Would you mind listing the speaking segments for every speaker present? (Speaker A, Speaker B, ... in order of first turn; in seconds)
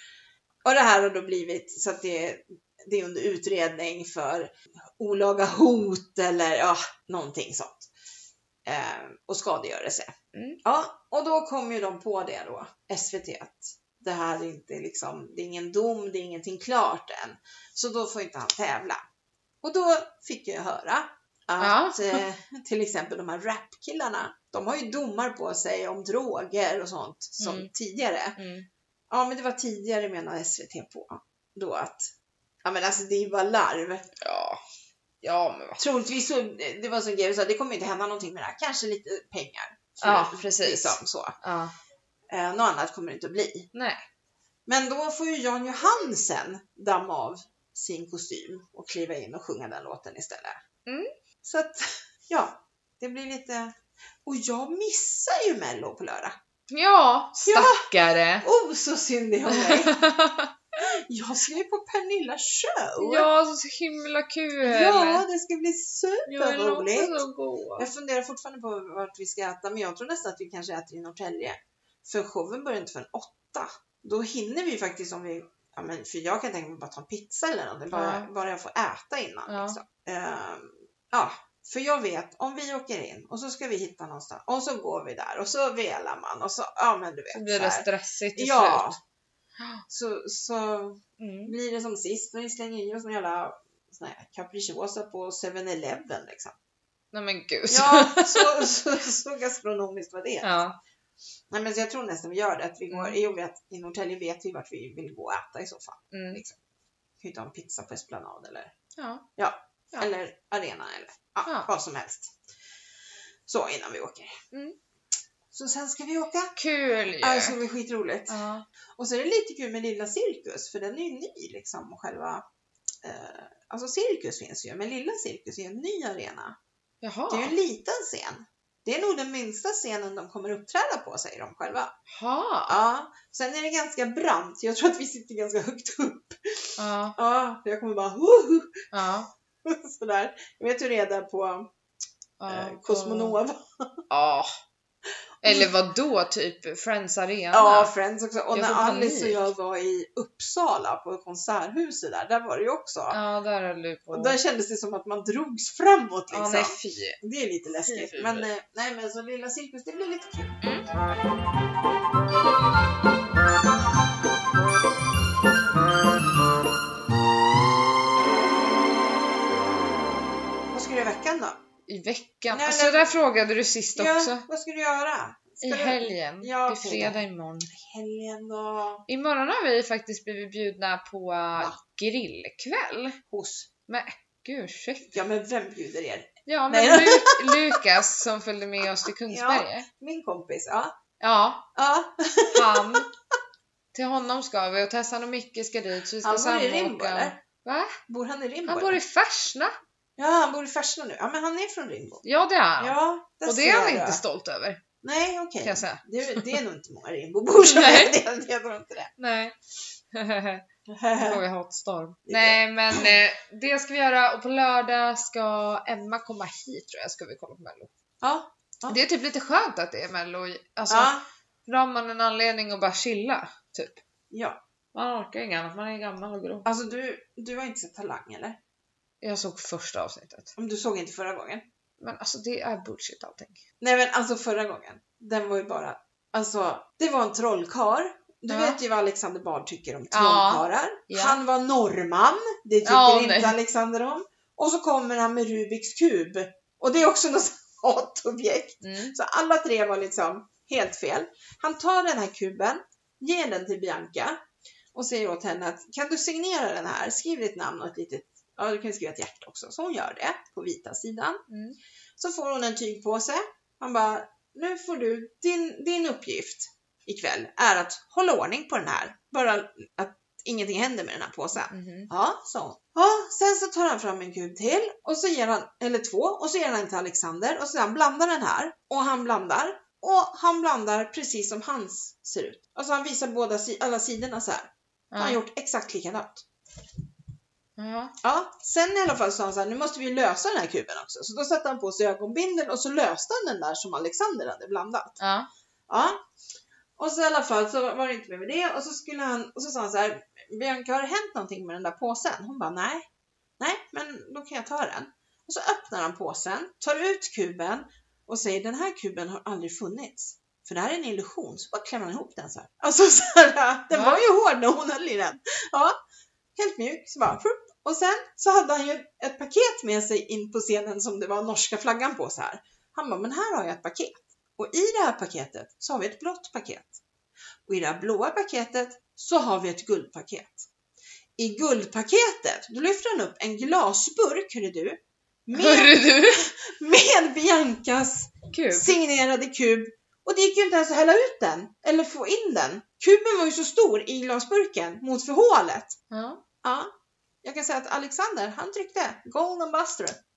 Speaker A: 0.6-7.9, 8.6-10.1, 10.6-19.0, 19.6-28.4, 29.1-32.1, 32.6-34.1, 35.8-41.4, 42.3-43.7, 44.6-50.6, 51.4-56.4, 57.4-57.8, 58.4-60.0, 60.8-63.3, 64.6-67.2, 67.8-89.0, 89.9-96.5, 97.7-100.5, 101.5-106.6, 107.2-108.7, 109.4-112.3, 113.5-114.3, 115.5-116.5, 117.2-118.4, 119.0-122.4, 123.0-126.6, 127.3-131.9, 132.7-138.9, 139.6-141.7, 142.5-144.0, 145.4-145.7, 147.5-153.2, 154.1-160.6, 170.7-171.6, 172.5-173.1, 173.9-179.0, 183.3-183.7, 185.1-187.8, 189.0-190.9, 191.7-193.1, 196.2-197.4, 198.1-199.0, 200.2-202.2, 202.8-204.2, 205.0-209.1, 210.9-211.4, 212.2-213.1, 218.2-219.0, 220.9-221.2, 224.3-224.6, 226.6-228.6, 230.6-231.6, 233.8-254.4, 254.9-261.4, 262.2-286.4, 288.2-295.2, 295.9-296.2, 297.0-303.1, 303.6-315.9, 316.6-327.0, 327.6-330.7, 331.4-345.9, 346.6-346.9, 347.4-350.2
Speaker B: 10.3-10.6, 21.6-22.2, 27.4-27.7, 28.4-28.6, 34.2-34.6, 35.2-35.8, 40.0-41.7, 43.7-44.0, 56.7-58.5, 59.5-60.5, 63.0-65.2, 66.2-67.9, 77.9-78.3, 79.5-79.8, 87.3-88.9, 91.2-91.5, 97.1-98.7, 100.4-100.8, 102.9-103.2, 106.1-106.4, 109.0-109.2, 111.4-111.7, 116.5-117.6, 118.3-118.6, 127.0-127.5, 132.1-132.8, 136.8-137.2, 138.9-139.3, 142.4-143.4, 144.1-144.5, 145.4-147.9, 148.5-149.5, 153.1-154.4, 156.3-157.2, 157.8-158.5, 160.6-160.9, 171.9-174.4, 175.6-177.7, 179.1-183.2, 183.9-185.1, 186.4-189.8, 191.2-191.6, 192.5-193.1, 193.9-197.9, 198.7-199.7, 202.2-204.8, 205.6-206.6, 207.6-208.2, 209.2-209.5, 210.1-217.9, 218.9-221.1, 221.7-224.0, 224.9-226.7, 229.2-230.5, 232.0-233.6, 238.5-238.8, 240.1-241.4, 242.8-243.6, 248.8-249.1, 261.5-261.8, 271.7-272.1, 285.1-285.4, 287.8-288.1, 295.2-295.5, 313.9-314.2, 335.5-336.5, 338.5-338.9, 346.1-346.4